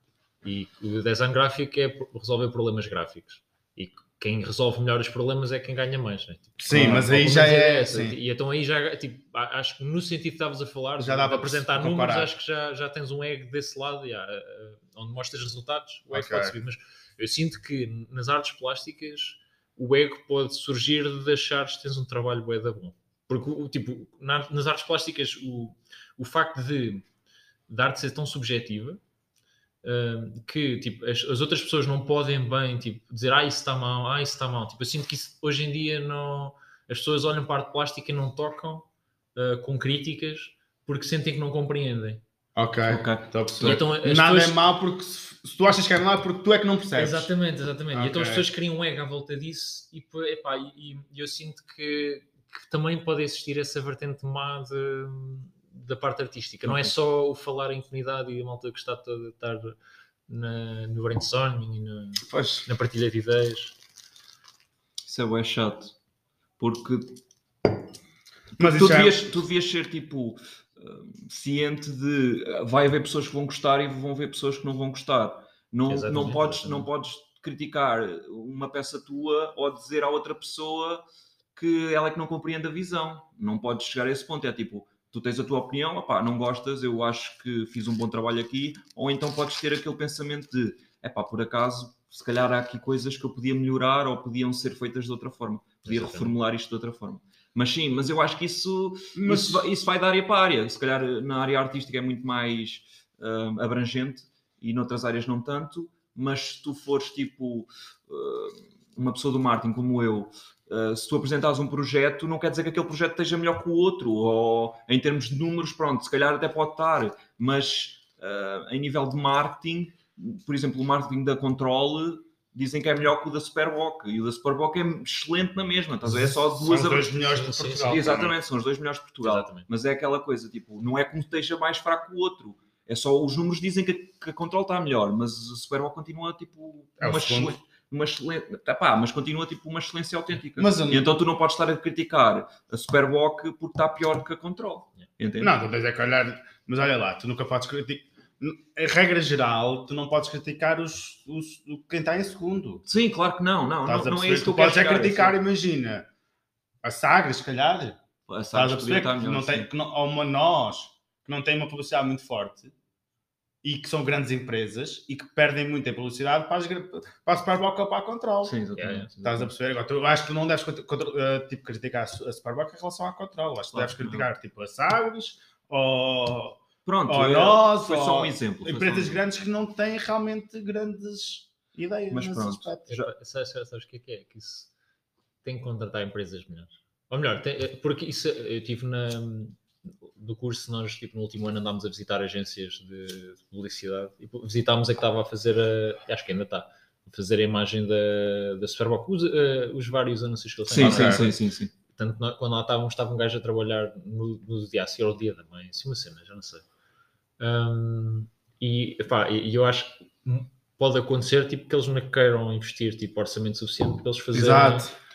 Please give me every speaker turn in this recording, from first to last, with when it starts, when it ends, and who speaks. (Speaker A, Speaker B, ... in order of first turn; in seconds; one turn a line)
Speaker A: 0.4-27.0
Speaker B: 6.6-8.2
Speaker B: 11.0-12.3
Speaker B: 16.1-16.6
Speaker A: 27.7-29.0
Speaker A: 29.8-42.2
Speaker B: 42.5-47.3
Speaker C: 42.9-43.8
Speaker A: 43.6-44.6
Speaker A: 47.0-59.8
Speaker B: 47.9-48.5
Speaker C: 56.6-56.9
Speaker A: 60.3-63.8
Speaker B: 62.2-62.6
Speaker C: 65.0-65.9
Speaker C: 66.6-67.2
Speaker C: 68.5-81.0
Speaker B: 68.6-69.4
Speaker A: 75.8-76.9
Speaker C: 81.5-127.1
Speaker A: 95.8-96.3
Speaker B: 99.2-99.7
Speaker B: 126.5-128.3
Speaker A: 127.2-128.0
Speaker C: 127.8-145.6
Speaker A: 129.2-129.7
Speaker B: 137.0-137.6
Speaker B: 140.6-141.1
Speaker B: 145.4-152.8
Speaker C: 152.9-155.4
Speaker B: 153.8-156.1
Speaker B: 156.8-158.0
Speaker C: 158.3-159.7
Speaker B: 158.5-162.7
Speaker B: 163.6-168.5
Speaker C: 168.4-169.5
Speaker A: 168.8-169.1
Speaker B: 169.2-183.0
Speaker C: 173.7-174.3
Speaker C: 176.8-179.2
Speaker C: 182.1-183.0
Speaker A: 182.9-184.7
Speaker A: 185.4-201.4
Speaker C: 200.7-201.7
Speaker B: 200.7-201.3
Speaker A: 201.9-206.6
Speaker A: 207.4-214.9
Speaker B: 214.3-214.9